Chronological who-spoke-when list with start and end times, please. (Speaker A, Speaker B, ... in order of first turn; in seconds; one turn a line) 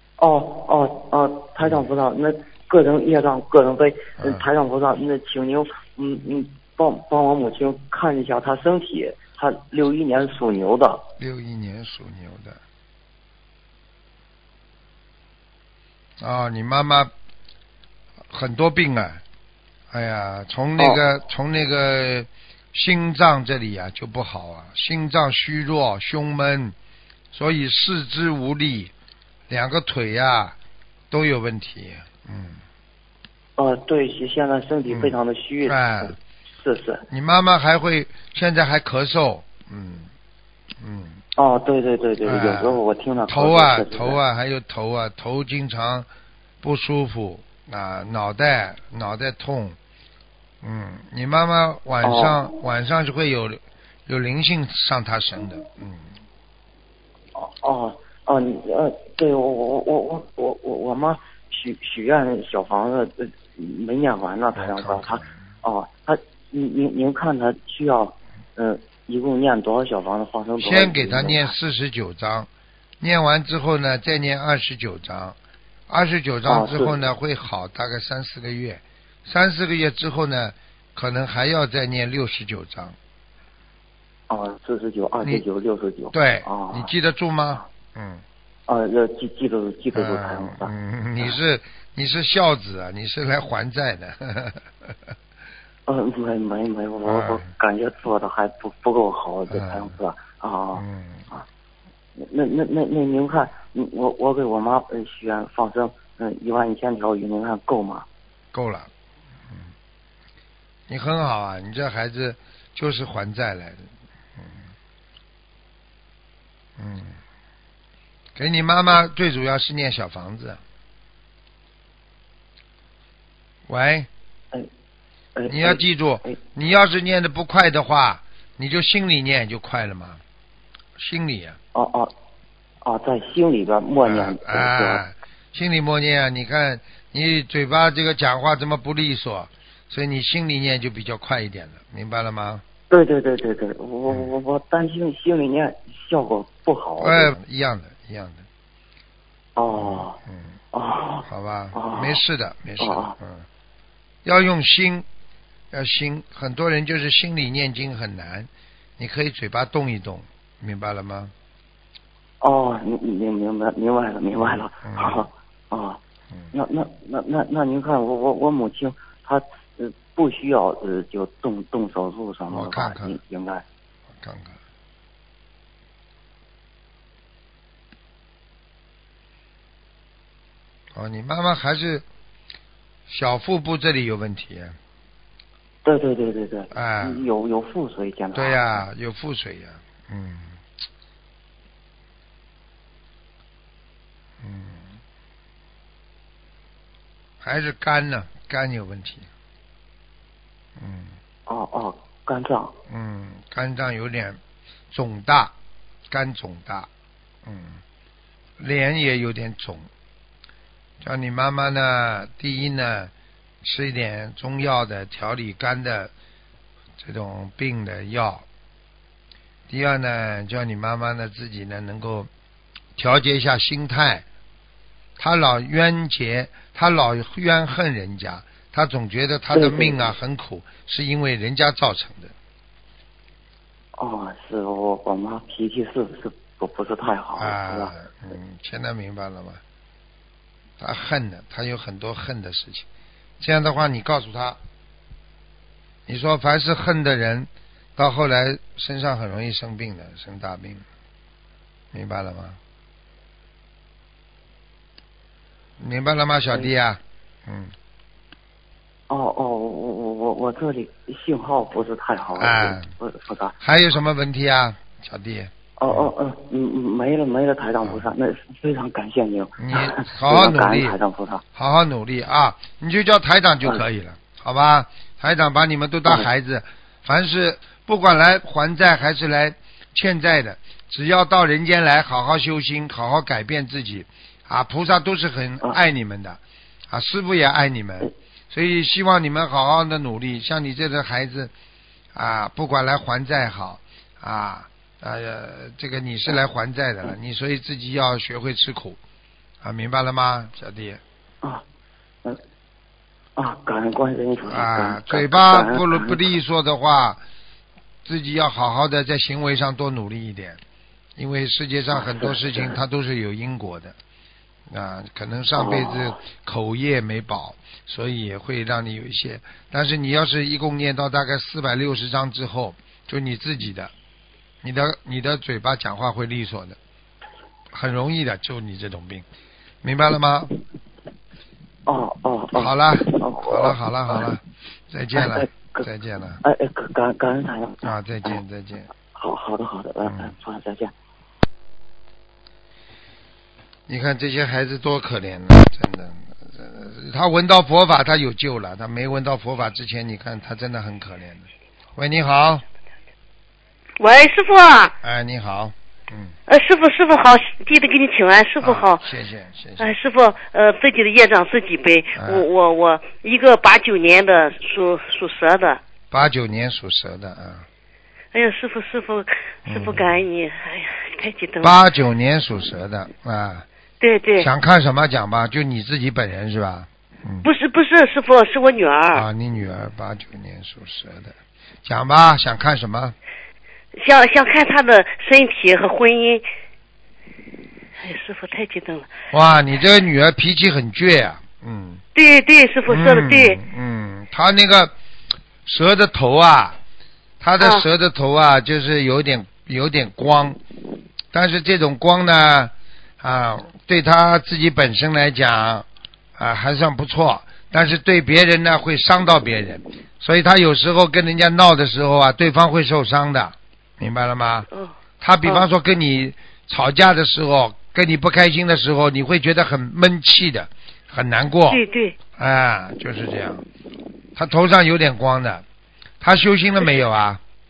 Speaker A: 0.2-11.1
Speaker B: 1.6-1.9
Speaker B: 4.2-4.5
Speaker B: 11.2-12.6
Speaker B: 16.2-17.1
Speaker B: 18.3-19.2
Speaker B: 19.9-26.7
Speaker B: 27.3-28.9
Speaker B: 29.5-30.5
Speaker B: 31.1-32.6
Speaker A: 33.6-37.0
Speaker B: 34.9-36.1
Speaker B: 37.1-40.1
Speaker B: 40.8-41.2
Speaker A: 41.4-44.2
Speaker B: 42.2-46.1
Speaker B: 46.6-49.8
Speaker B: 50.6-56.1
Speaker A: 52.0-52.4
Speaker A: 57.3-71.5
Speaker B: 64.5-65.3
Speaker B: 70.6-72.5
Speaker B: 73.0-75.3
Speaker B: 75.9-83.0
Speaker A: 76.5-77.0
Speaker A: 84.3-86.9
Speaker B: 86.1-88.2
Speaker A: 88.7-91.3
Speaker B: 89.9-94.9
Speaker A: 95.8-101.5
Speaker B: 97.0-97.4
Speaker B: 99.5-99.9
Speaker B: 100.7-101.2
Speaker A: 102.2-108.0
Speaker B: 108.5-108.9
Speaker B: 110.9-114.6
Speaker B: 116.8-117.2
Speaker B: 118.3-120.6
Speaker B: 123.7-124.1
Speaker A: 125.3-126.3
Speaker B: 125.5-130.2
Speaker B: 131.0-131.6
Speaker A: 131.7-132.1
Speaker A: 132.8-135.0
Speaker B: 134.0-142.6
Speaker A: 142.9-147.3
Speaker B: 147.0-148.4
Speaker A: 149.6-150.2
Speaker B: 149.7-150.4
Speaker A: 150.7-152.2
Speaker B: 151.3-153.4
Speaker A: 152.8-153.1
Speaker B: 154.2-155.1
Speaker B: 155.7-161.3
Speaker A: 162.4-166.0
Speaker B: 164.4-165.3
Speaker A: 166.5-173.6
Speaker B: 172.5-173.2
Speaker B: 174.2-174.6
Speaker B: 180.9-182.0
Speaker B: 183.1-184.8
Speaker A: 185.8-188.6
Speaker B: 186.7-187.2
Speaker B: 188.3-190.6
Speaker B: 194.4-194.9
Speaker B: 197.4-199.3
Speaker B: 200.8-201.1
Speaker A: 201.5-202.7
Speaker B: 202.9-204.4
Speaker B: 204.9-205.5
Speaker B: 206.1-206.9
Speaker B: 207.4-207.8
Speaker B: 208.6-209.9
Speaker B: 211.0-216.1
Speaker B: 217.0-218.4
Speaker B: 219.7-222.3
Speaker B: 222.9-224.2
Speaker B: 225.2-232.3
Speaker A: 229.5-230.1
Speaker A: 234.0-237.9
Speaker B: 237.4-239.6
Speaker B: 240.8-242.8
Speaker B: 243.4-244.6
Speaker B: 246.1-250.8
Speaker B: 251.9-252.6
Speaker B: 255.8-257.7
Speaker A: 259.1-263.6
Speaker B: 262.4-262.9
Speaker B: 263.6-266.1
Speaker A: 265.8-271.4
Speaker B: 269.6-270.9
Speaker B: 271.5-286.4
Speaker B: 286.9-291.5
Speaker B: 292.1-299.0
Speaker B: 299.6-301.0
Speaker A: 303.4-306.2
Speaker B: 304.5-307.2
Speaker B: 308.0-310.6
Speaker B: 311.2-313.9
Speaker A: 311.9-312.8
Speaker B: 314.7-323.9
Speaker A: 315.5-316.2
Speaker B: 324.6-326.8
Speaker B: 327.7-329.2
Speaker B: 329.8-330.5
Speaker A: 331.9-334.3
Speaker B: 332.5-336.4
Speaker A: 335.1-335.9
Speaker A: 336.4-338.4
Speaker B: 337.8-338.9
Speaker A: 339.1-340.9
Speaker B: 340.0-340.3
Speaker B: 343.9-352.6
Speaker C: 354.0-354.9
Speaker B: 355.0-356.3
Speaker C: 356.5-359.0
Speaker B: 358.6-359.9
Speaker C: 359.8-365.8
Speaker B: 362.1-362.4
Speaker B: 366.1-367.6
Speaker C: 368.3-371.8
Speaker B: 369.7-370.2
Speaker B: 371.6-373.6
Speaker C: 374.0-374.5
Speaker B: 374.4-377.5
Speaker C: 377.4-379.2
Speaker B: 379.1-383.1
Speaker C: 384.0-386.4
Speaker C: 388.0-389.1
Speaker B: 389.3-392.0
Speaker C: 392.1-393.6
Speaker B: 392.9-394.9
Speaker B: 395.6-396.8
Speaker B: 397.4-400.6
Speaker C: 397.6-397.8
Speaker B: 401.3-405.9
Speaker B: 406.4-414.7
Speaker B: 415.2-421.8
Speaker C: 421.7-422.2
Speaker B: 422.4-423.6
Speaker B: 424.4-425.6
Speaker B: 426.2-427.4